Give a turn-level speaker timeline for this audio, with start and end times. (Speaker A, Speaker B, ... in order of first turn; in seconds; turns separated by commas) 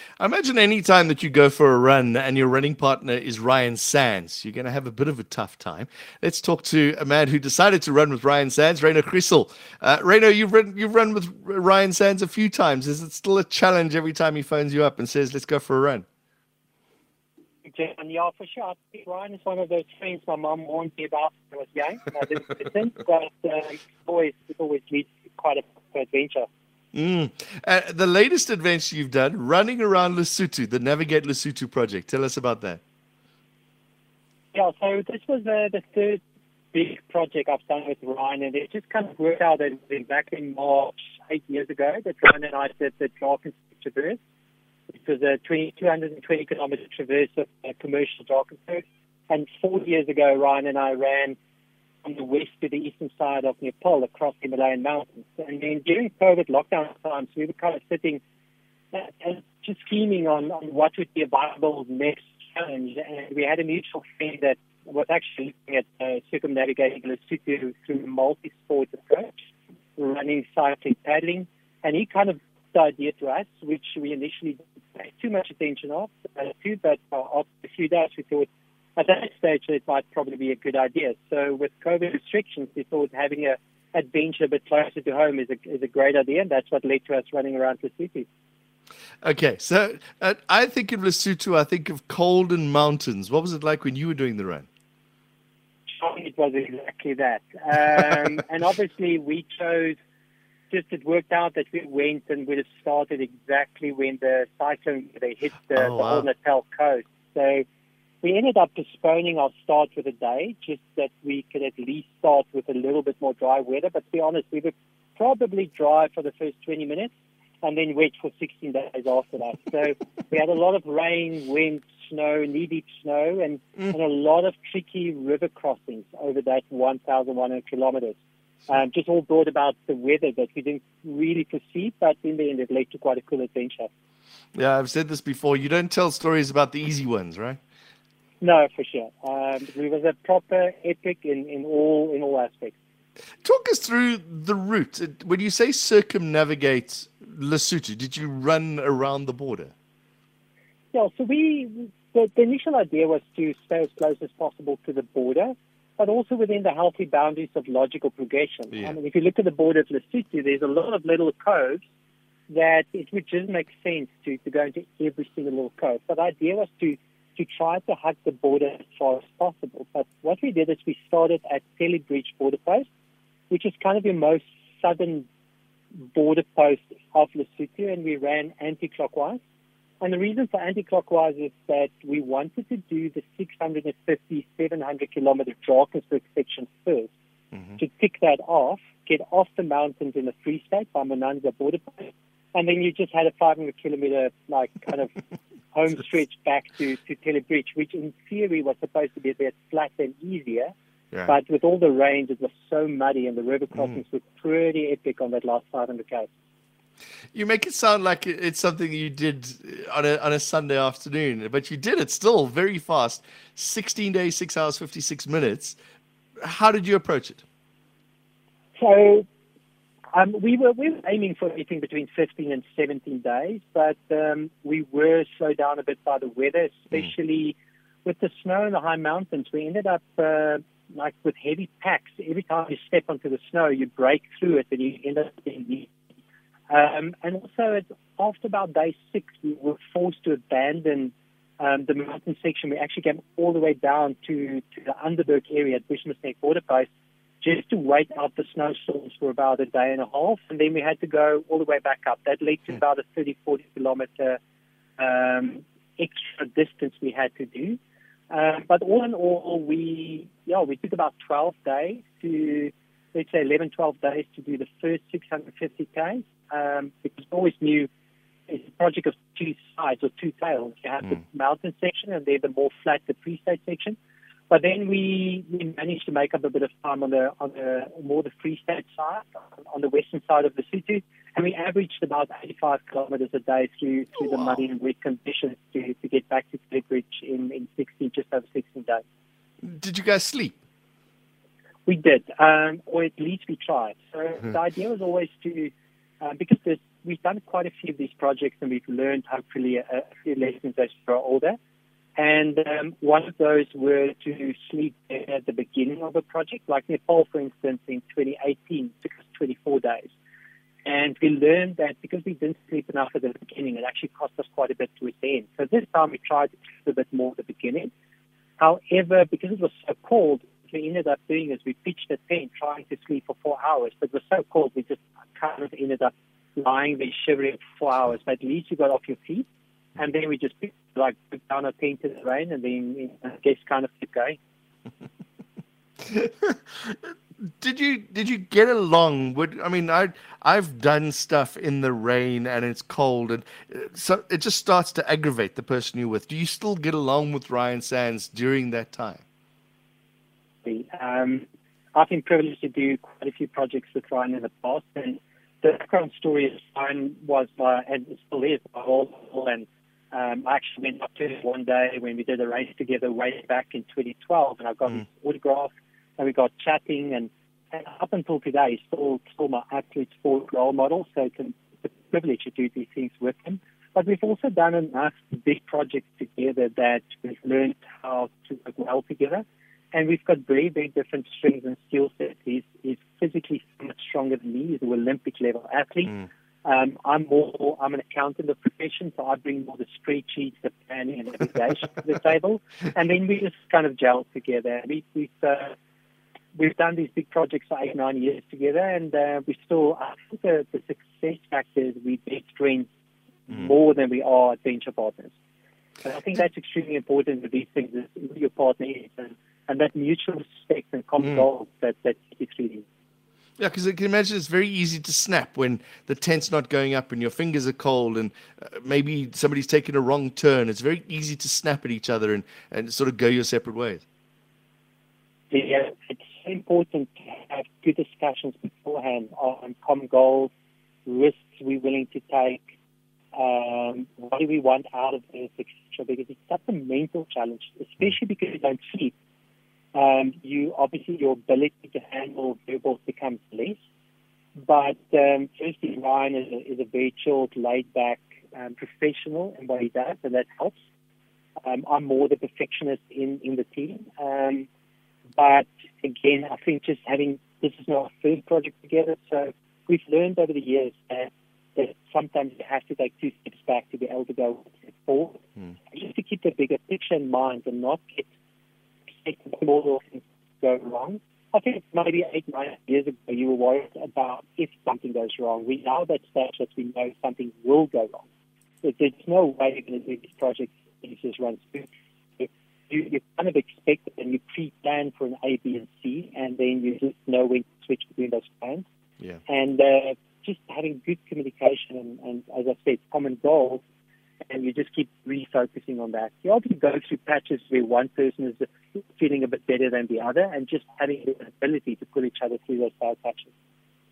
Speaker A: 0.2-16.1, Speaker B: 17.7-26.5, Speaker A: 26.9-32.8, Speaker B: 34.5-36.2, Speaker B: 36.7-44.2, Speaker B: 44.9-51.4, Speaker B: 52.0-58.2, Speaker B: 58.9-69.4, Speaker B: 70.0-88.3, Speaker A: 89.2-94.7, Speaker B: 95.9-100.0, Speaker B: 100.7-107.6, Speaker A: 105.8-106.3, Speaker B: 108.2-133.9, Speaker A: 134.6-137.6, Speaker B: 138.4-142.8, Speaker A: 143.4-149.7, Speaker B: 150.9-161.8, Speaker B: 162.5-172.9, Speaker B: 173.5-175.3, Speaker B: 176.1-179.4, Speaker B: 180.0-187.1, Speaker B: 187.8-195.2, Speaker B: 195.7-200.7, Speaker B: 201.2-206.3, Speaker A: 207.3-215.8, Speaker A: 216.4-217.4, Speaker B: 218.8-219.2, Speaker B: 220.1-235.9, Speaker B: 236.7-246.9, Speaker B: 247.4-254.4, Speaker B: 255.0-257.8, Speaker B: 258.3-267.9, Speaker B: 268.5-274.0, Speaker B: 274.5-289.0, Speaker A: 289.6-290.6, Speaker B: 291.9-301.6, Speaker B: 302.2-310.1, Speaker B: 310.9-317.9, Speaker B: 318.6-329.5, Speaker B: 330.0-334.4, Speaker A: 336.0-349.2, Speaker B: 350.6-395.7, Speaker B: 396.6-402.9, Speaker B: 403.5-405.3, Speaker B: 406.0-412.9, Speaker A: 413.6-424.0, Speaker B: 425.5-430.5, Speaker B: 431.1-432.6, Speaker B: 433.3-439.1, Speaker B: 439.9-443.8, Speaker B: 444.6-450.8, Speaker B: 451.6-454.7, Speaker B: 455.4-468.3, Speaker B: 469.1-478.2, Speaker B: 478.8-481.9, Speaker B: 482.4-488.9, Speaker B: 489.5-493.8, Speaker B: 494.5-503.5